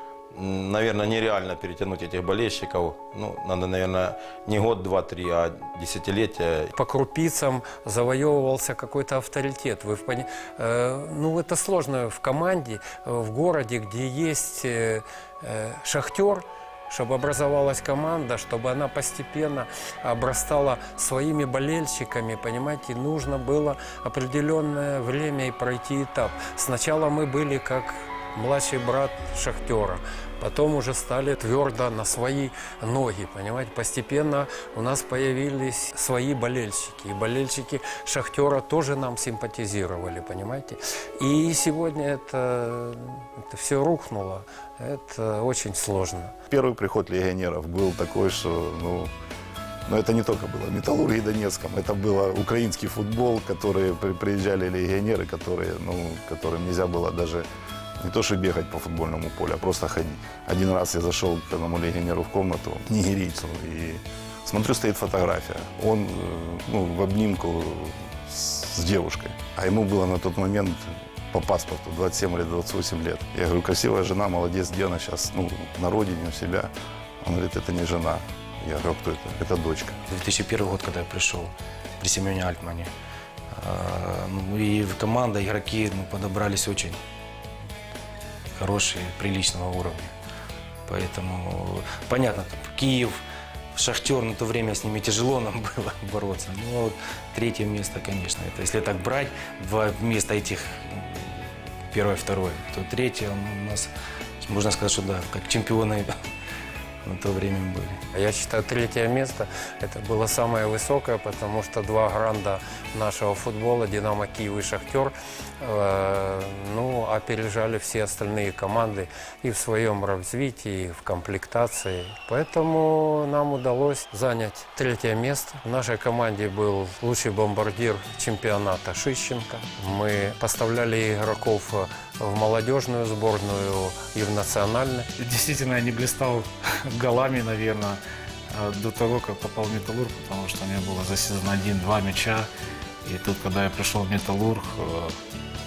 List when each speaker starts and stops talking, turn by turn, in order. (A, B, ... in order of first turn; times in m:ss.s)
0:00.3-0:06.7 A
0:06.7-0:46.3 B
0:46.5-0:49.1 C
0:49.9-0:57.5 C
0:58.0-1:16.7 C
1:17.2-1:20.0 C
1:20.1-1:22.9 D
1:23.5-1:27.0 D
1:28.6-1:30.1 D
1:30.9-1:33.2 D
1:33.7-1:46.2 D
1:47.0-1:48.0 D
1:48.1-2:15.1 B
2:15.2-2:18.0 E
2:18.5-2:22.5 E
2:23.0-2:25.2 E